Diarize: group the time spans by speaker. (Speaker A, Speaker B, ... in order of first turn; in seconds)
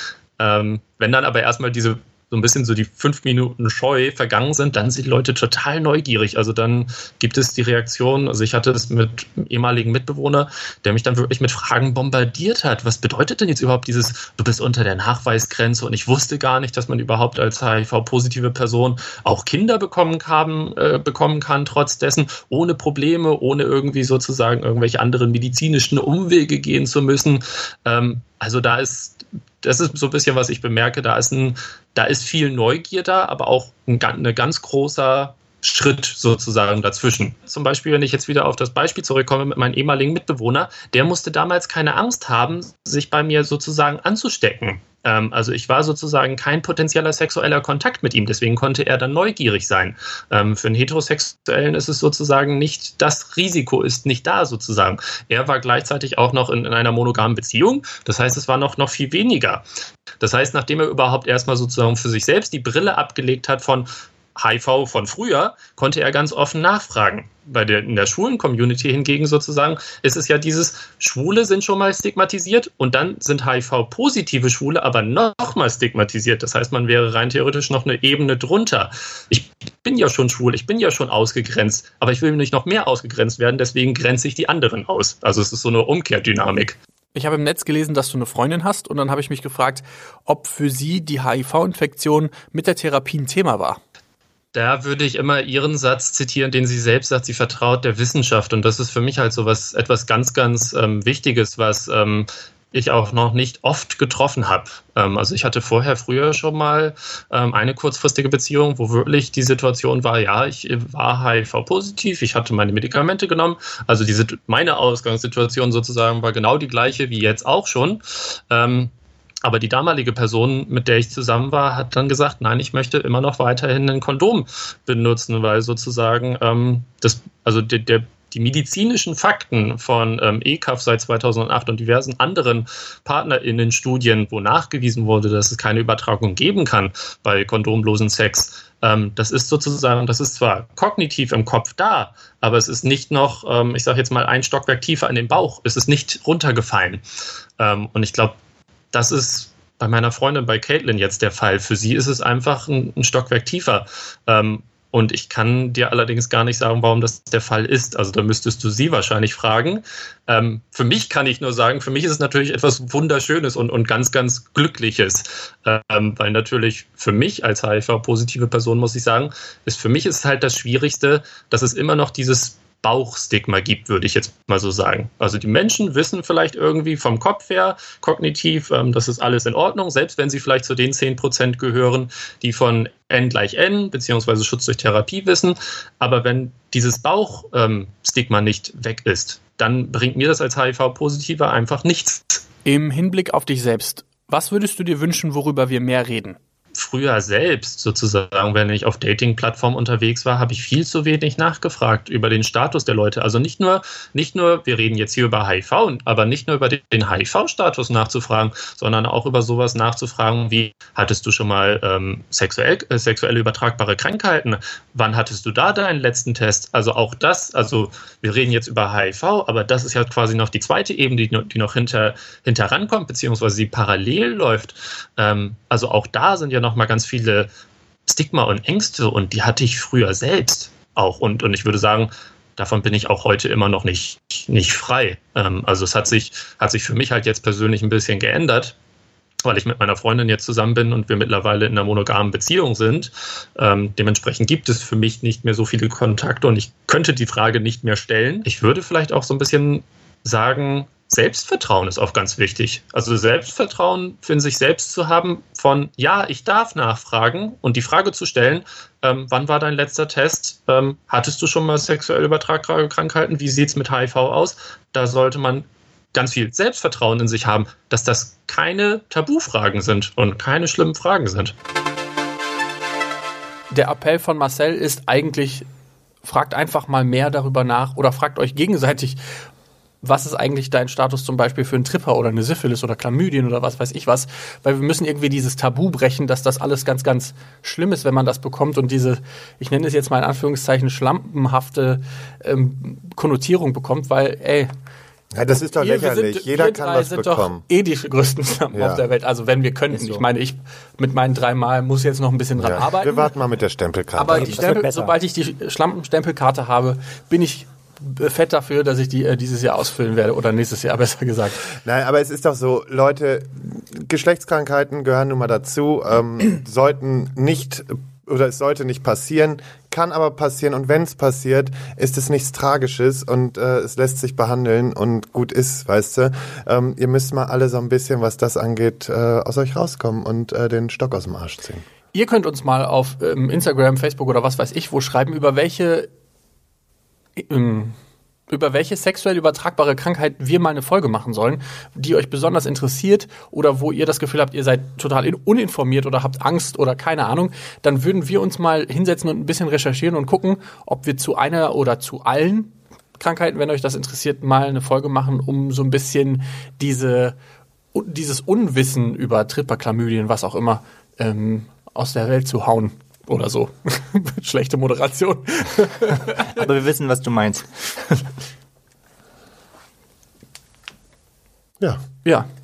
Speaker A: 0.4-59.6, 60.2-86.8, 94.5-118.9, 119.4-147.0, 147.6-148.3, 148.9-192.4, 196.7-227.5, 228.1-238.7, 239.4-271.5
Speaker B: 87.1-93.8, 192.6-196.4, 273.7-275.7, 276.2-279.2, 280.0-294.7, 295.8-303.3, 304.1-311.7, 332.1-336.1, 337.4-337.9, 338.5-357.4, 357.9-366.6
Speaker C: 295.3-297.6, 298.7-299.0, 302.6-304.6, 311.8-331.8
Speaker D: 299.9-300.2, 304.3-305.1, 366.5-368.2